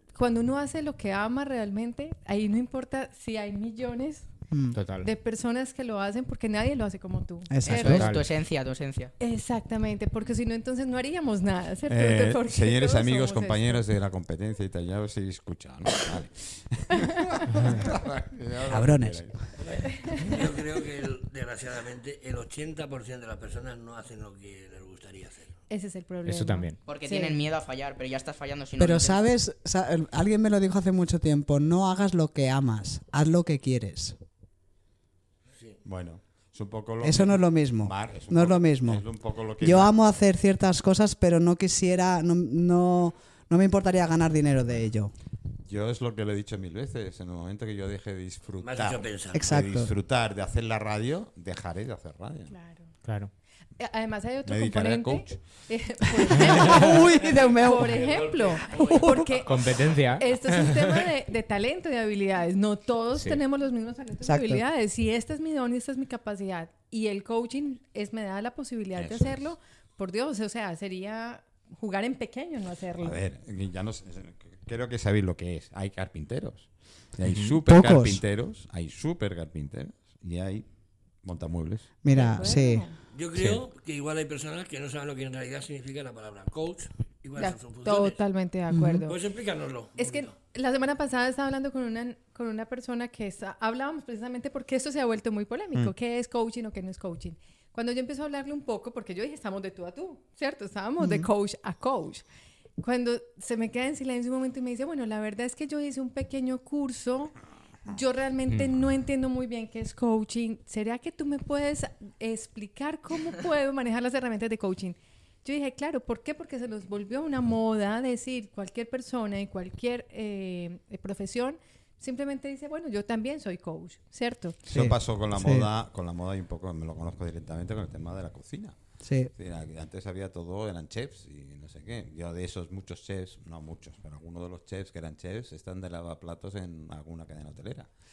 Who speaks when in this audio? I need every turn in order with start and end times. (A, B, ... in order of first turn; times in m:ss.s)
0:00.1-0:04.3 A
0:04.7-0:05.1 B
0:05.0-0:08.1 A
0:07.5-0:08.1 C
0:07.6-0:09.1 D
0:07.8-0:08.2 B
0:09.2-0:13.8 A
0:11.9-0:19.4 E
0:17.5-0:17.8 B
0:18.6-0:19.3 C
0:19.6-0:25.5 F
0:19.8-0:20.4 A
0:25.7-0:27.4 A
0:26.2-0:26.8 B
0:26.8-0:29.2 D
0:28.8-0:34.2 C
0:35.8-0:39.9 E
0:37.0-0:39.0 C
0:39.6-0:45.1 C
0:45.6-0:52.5 E
0:48.6-0:49.4 F
0:49.3-0:49.9 C
0:52.5-0:52.9 A
0:53.0-0:53.3 B
0:53.8-1:13.2 A
0:54.4-0:55.6 E
0:56.3-0:58.1 C
0:57.2-0:59.3 F
0:58.7-0:59.4 C
0:59.4-1:01.0 B
1:03.1-1:03.4 B
1:04.2-1:04.6 C
1:09.0-1:09.4 E
1:13.0-1:20.6 E
1:17.6-1:18.2 C
1:21.2-1:22.4 E
1:22.0-1:22.8 C
1:22.1-1:23.0 A
1:23.1-1:28.2 F
1:27.4-1:29.2 A
1:28.7-1:29.0 C
1:29.1-1:30.3 F
1:30.0-1:42.2 A
1:41.0-1:41.3 C
1:42.8-1:47.3 A
1:47.8-2:04.6 A
2:04.7-2:08.8 E
2:04.7-2:05.7 C
2:09.0-2:09.3 C
2:09.3-2:17.9 E